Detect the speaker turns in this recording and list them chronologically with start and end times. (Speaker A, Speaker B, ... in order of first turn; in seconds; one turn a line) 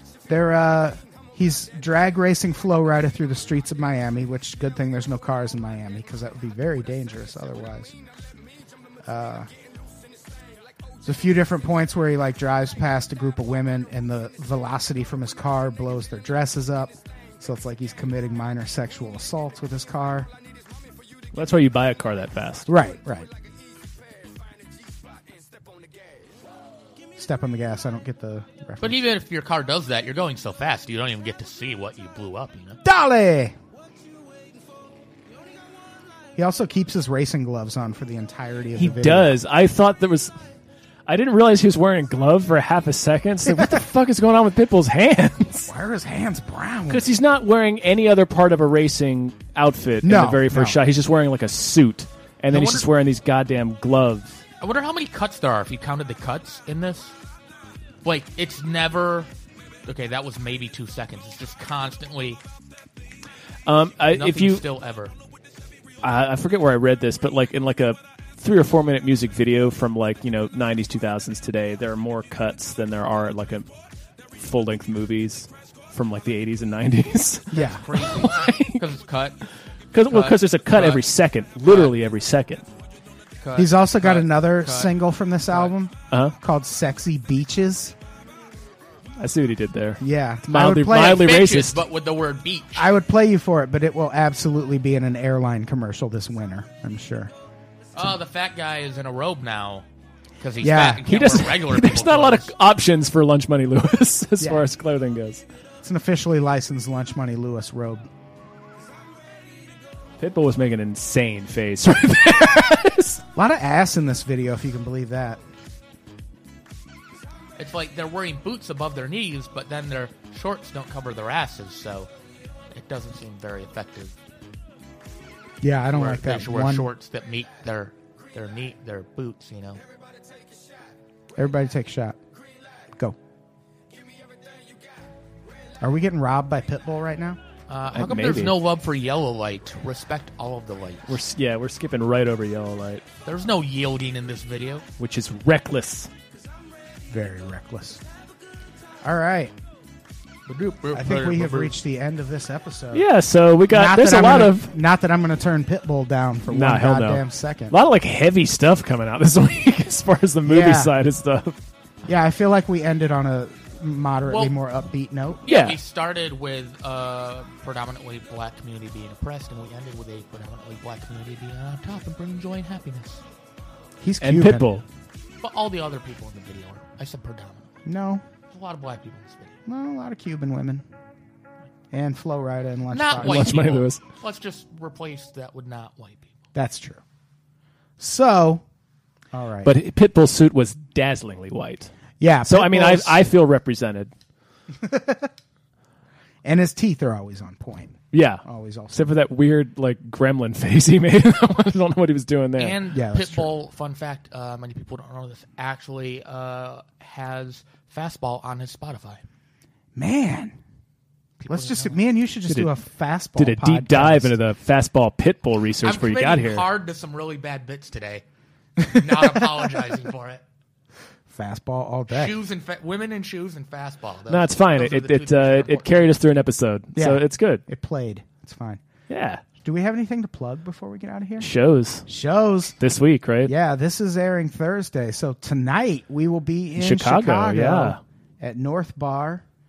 Speaker A: 0.3-7.9
Speaker A: 9.0-9.5
Speaker A: 11.0-20.3
Speaker B: 21.3-22.7
Speaker A: 22.7-23.3
Speaker A: 27.2-29.0
Speaker C: 28.8-32.8
Speaker A: 32.8-33.5
Speaker A: 36.4-39.4
Speaker B: 38.8-40.3
Speaker B: 41.1-45.7
Speaker A: 43.5-43.8
Speaker A: 45.7-47.1
Speaker B: 46.9-54.4
Speaker A: 50.0-50.8
Speaker C: 52.5-52.9
Speaker C: 54.6-57.1
Speaker C: 58.0-59.3
Speaker C: 59.9-62.4
Speaker B: 63.6-64.6
Speaker C: 64.1-65.1
Speaker B: 66.0-73.7
Speaker B: 74.3-78.8
Speaker A: 77.5-77.8
Speaker C: 77.5-79.4
Speaker B: 79.9-82.7
Speaker C: 80.1-81.0
Speaker C: 81.6-81.9
Speaker C: 83.4-85.0
Speaker A: 83.5-87.9
Speaker B: 89.2-91.8
Speaker A: 90.0-91.3
Speaker C: 90.9-92.9
Speaker A: 92.8-97.3
Speaker C: 97.9-99.8
Speaker C: 100.4-102.5
Speaker A: 100.6-101.1
Speaker B: 101.1-105.4
Speaker A: 104.4-104.7
Speaker A: 105.8-108.1
Speaker B: 110.2-113.2
Speaker A: 113.3-115.4
Speaker C: 117.6-122.1
Speaker C: 122.7-124.2
Speaker A: 125.6-126.9
Speaker C: 125.9-129.8
Speaker A: 131.3-132.2
Speaker A: 135.8-137.4
Speaker C: 137.7-141.2
Speaker B: 137.9-138.6
Speaker B: 141.1-143.0
Speaker C: 143.2-144.8
Speaker B: 145.0-146.1
Speaker A: 147.1-148.0
Speaker A: 149.0-149.5
Speaker C: 150.4-151.7
Speaker A: 150.9-153.1
Speaker B: 152.9-154.7
Speaker A: 153.7-157.8
Speaker B: 156.5-161.6
Speaker A: 160.4-160.9
Speaker A: 162.1-165.4
Speaker C: 164.3-164.6
Speaker C: 165.4-173.2
Speaker B: 165.5-165.8
Speaker A: 174.0-174.8
Speaker B: 174.2-174.8
Speaker C: 175.4-177.8
Speaker A: 177.8-178.2
Speaker C: 178.5-179.6
Speaker A: 179.7-180.8
Speaker A: 181.9-183.5
Speaker C: 182.9-186.4
Speaker B: 183.2-184.0
Speaker A: 186.5-187.0
Speaker A: 188.0-188.6
Speaker A: 189.3-189.7
Speaker B: 189.6-191.9
Speaker A: 192.2-193.2
Speaker B: 192.4-194.1
Speaker A: 194.8-195.3
Speaker A: 196.4-199.2
Speaker B: 198.1-202.8
Speaker C: 202.6-209.2
Speaker A: 202.9-203.5
Speaker A: 209.9-210.6
Speaker C: 211.4-212.0
Speaker A: 211.5-214.4
Speaker B: 212.5-212.7
Speaker B: 213.3-216.7
Speaker C: 215.8-218.2
Speaker A: 218.8-219.6
Speaker C: 218.8-220.4
Speaker A: 221.3-222.3
Speaker C: 222.1-226.2
Speaker B: 224.3-227.6
Speaker A: 226.9-228.8
Speaker B: 229.1-229.4
Speaker A: 229.6-231.5
Speaker B: 231.4-232.1
Speaker A: 232.1-232.8
Speaker B: 232.8-233.5
Speaker A: 233.4-239.4
Speaker B: 236.8-238.0